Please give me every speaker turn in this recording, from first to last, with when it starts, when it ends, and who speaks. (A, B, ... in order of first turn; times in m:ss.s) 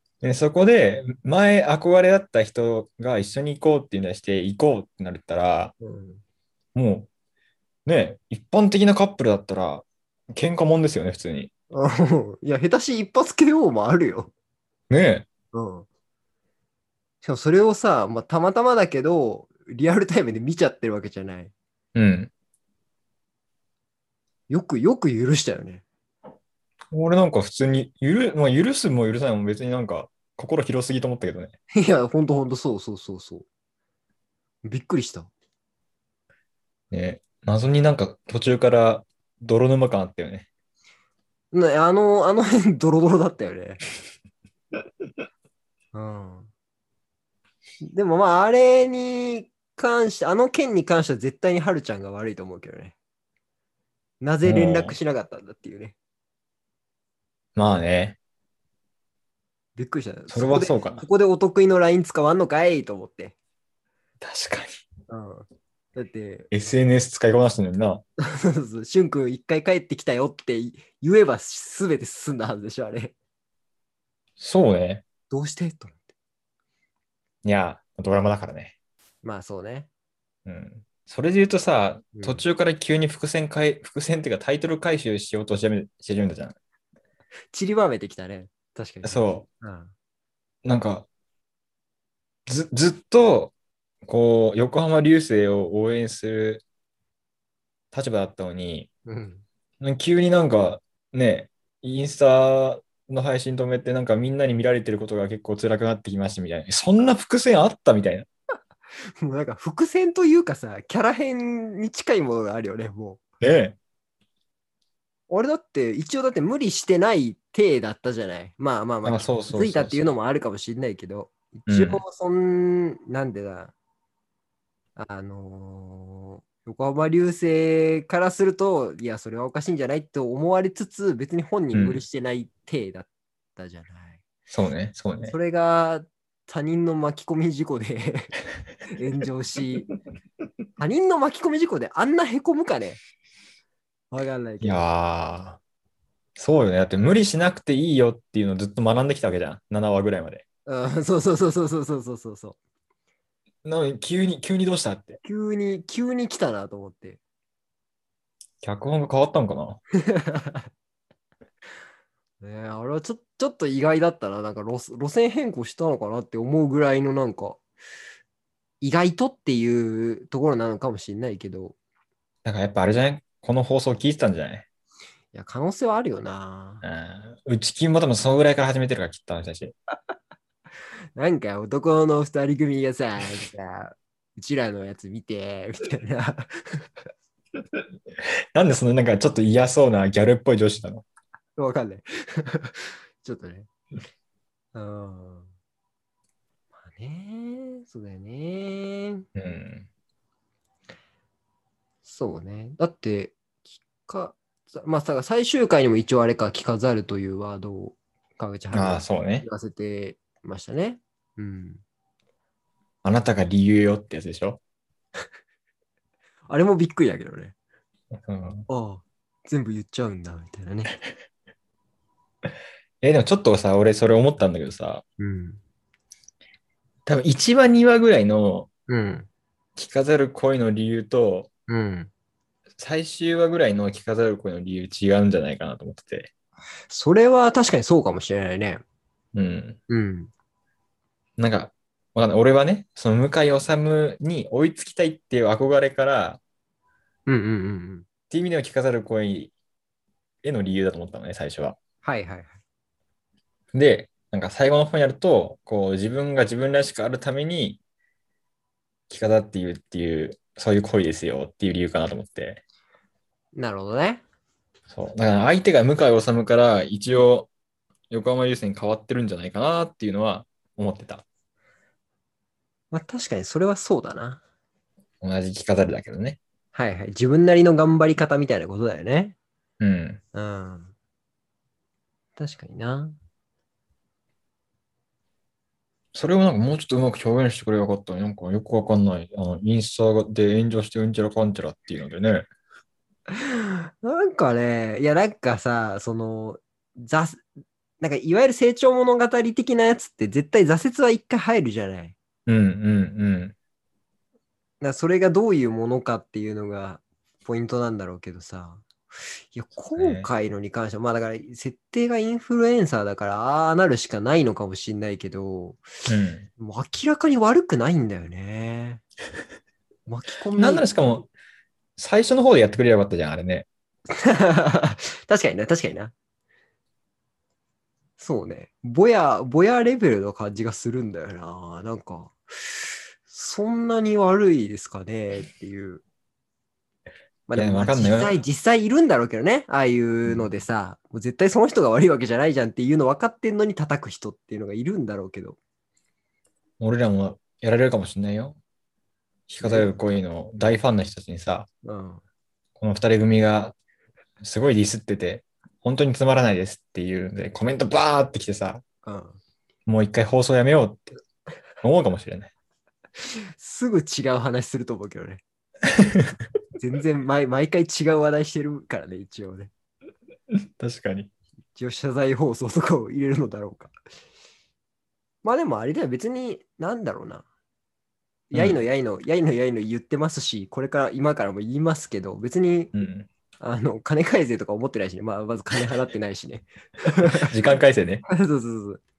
0:00.2-0:05.7 A
0:05.8-0:06.2 B
0:06.7-0:07.1 A
0:07.8-0:11.5 A
0:11.7-0:14.3 B
0:14.9-0:15.3 A
0:15.5-0:15.9 B
0:17.2-0:21.5 B
0:21.9-0:22.3 A
0:24.5-0:25.8 B
0:26.9-0:31.5 A
0:31.7-0:33.4 B
0:34.6-0:35.3 B
0:36.9-0:40.5 A
0:41.5-0:43.8 B
0:45.9-0:46.5 B
0:47.9-0:52.9 B
0:54.2-0:56.0 B
0:54.4-0:55.0 A
0:57.6-0:58.2 A
0:59.8-1:03.3 B
1:00.3-1:01.0 A
1:04.2-1:04.8 A
1:05.1-1:06.5 B
1:06.5-1:08.0 A
1:08.2-1:13.1 B
1:14.4-1:15.0 A
1:15.3-1:16.0 B
1:17.4-1:18.7 A
1:19.2-1:19.9 B
1:20.4-1:26.6 A
1:22.1-1:22.4 B
1:27.5-1:29.9 B
1:29.0-1:29.4 A
1:30.6-1:31.1 A
1:32.5-1:33.5 A
1:34.0-1:36.6 A
1:37.9-1:38.9 A
1:39.0-1:39.4 B
1:39.8-1:48.3 A
1:49.2-1:53.2 B
1:53.4-1:53.8 A
1:55.3-2:03.7 B
1:59.0-2:00.1 A
2:01.7-2:02.0 A
2:05.0-2:14.2 B
2:11.7-2:12.0 A
2:14.5-2:15.4 A
2:15.2-2:18.3 B
2:18.9-2:19.9 B
2:20.8-2:23.0 B
2:24.1-2:24.8 B
2:24.6-2:25.6 A
2:26.4-2:30.4 A
2:30.7-2:32.6 B
2:33.6-2:35.2 A
2:35.2-2:37.2 B
2:38.6-2:39.8 A
2:40.1-2:40.7 B
2:42.4-2:47.6 B
2:48.8-2:51.8 B
2:52.4-2:54.6 A
2:55.3-2:56.8 B
2:56.8-2:59.7 A
3:01.1-3:06.9 B
3:08.5-3:11.0 A
3:11.6-3:13.7 B
3:14.7-3:15.5 B
3:16.8-3:19.2 B
3:19.3-3:19.9 A
3:22.0-3:31.8 B
3:28.7-3:29.5 A
3:33.0-3:34.6 A
3:36.5-3:37.5 B
3:38.1-3:38.7 A
3:38.7-3:40.9 B
3:43.0-3:45.0 A
3:45.2-3:45.6 B
3:47.0-3:48.7 A
3:48.9-3:49.3 B
3:49.8-3:51.5 A
3:51.7-3:52.1 B
3:52.8-3:56.3 A
3:56.9-3:58.8 B
3:59.3-3:59.8 A
3:59.9-4:00.3 B
4:01.4-4:06.4 A
4:07.3-4:08.0 B
4:08.3-4:09.5 A
4:10.4-4:11.8 A
4:12.0-4:12.6 B
4:13.7-4:17.8 A
4:19.1-4:22.6 A
4:23.5-4:24.2 B
4:24.9-4:27.5 A
4:28.1-4:31.2 A
4:32.9-4:34.4 B
4:35.2-4:36.4 A
4:36.7-4:39.4 B
4:39.8-4:40.2 A
4:40.3-4:40.9 B
4:42.4-4:43.2 B
4:46.1-4:52.5 A
4:53.3-4:57.4 B
4:58.0-5:02.1 B
5:02.5-5:03.5 A
5:04.8-5:08.9 B
5:09.5-5:15.8 B
5:10.0-5:10.3 A
5:16.1-5:16.5 A
5:16.6-5:19.0 B
5:20.1-5:21.0 B
5:20.6-5:21.3 A
5:22.0-5:23.7 A
5:24.2-5:26.1 B
5:28.2-5:36.0 B
5:37.5-5:45.6 B
5:37.5-5:38.4 A
5:46.8-5:48.6 A
5:49.5-5:51.7 A
5:49.6-5:49.9 B
5:51.8-5:52.2 B
5:52.8-5:53.7 A
5:54.4-5:58.8 A
5:59.0-5:59.4 B
5:59.8-6:01.1 A
6:01.8-6:02.5 A
6:03.6-6:05.4 B
6:06.8-6:09.7 B
6:10.5-6:11.3 A
6:11.7-6:13.9 B
6:15.4-6:17.4 B
6:18.5-6:22.9 B
6:18.5-6:18.8 A
6:22.9-6:23.3 A
6:23.6-6:27.5 B
6:27.4-6:28.2 A
6:28.3-6:29.0 B